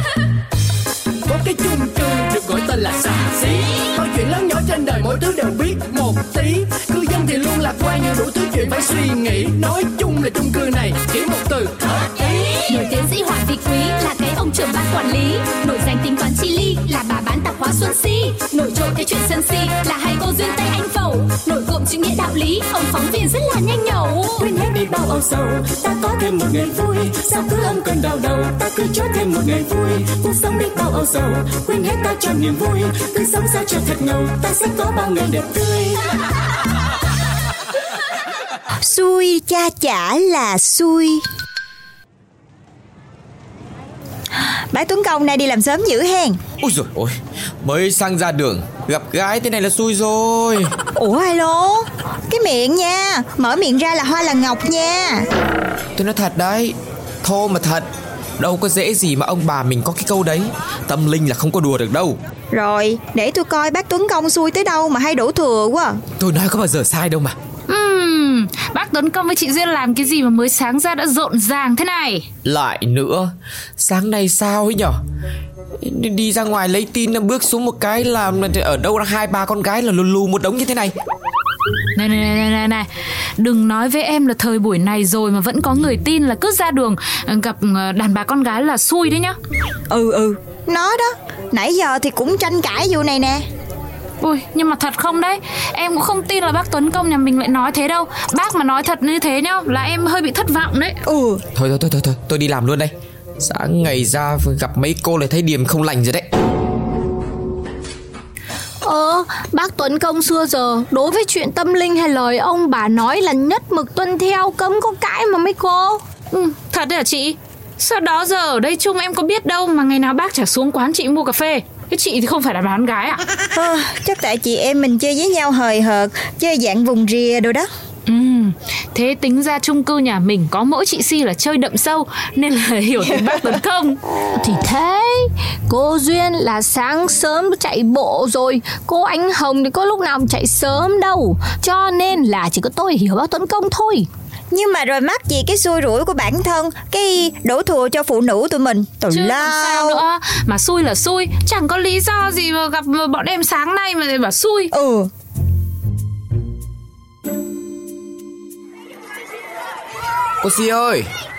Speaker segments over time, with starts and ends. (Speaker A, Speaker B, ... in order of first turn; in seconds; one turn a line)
Speaker A: 1.3-12.1
Speaker B: 12.7-24.4
Speaker C: 24.4-36.0
Speaker D: 38.8-41.2
Speaker D: 44.4-46.4
Speaker E: 46.6-50.7
Speaker D: 51.0-55.2
Speaker E: 56.0-57.9
Speaker E: 58.4-62.2
Speaker D: 62.5-66.0
Speaker E: 66.2-67.4
Speaker F: 67.7-72.3
Speaker E: 72.5-75.0
Speaker E: 75.8-80.9
Speaker F: 82.0-82.9
Speaker F: 83.4-89.4
Speaker D: 89.9-93.4
Speaker F: 94.2-101.0
Speaker D: 101.1-101.4
Speaker E: 101.5-106.3
Speaker G: 108.8-116.0
Speaker F: 116.3-123.2
Speaker D: 123.5-127.7
Speaker F: 128.1-134.0
Speaker G: 134.4-144.1
Speaker D: 144.5-150.0
Speaker F: 149.1-154.7
Speaker D: 154.7-155.1
Speaker E: 160.4-161.1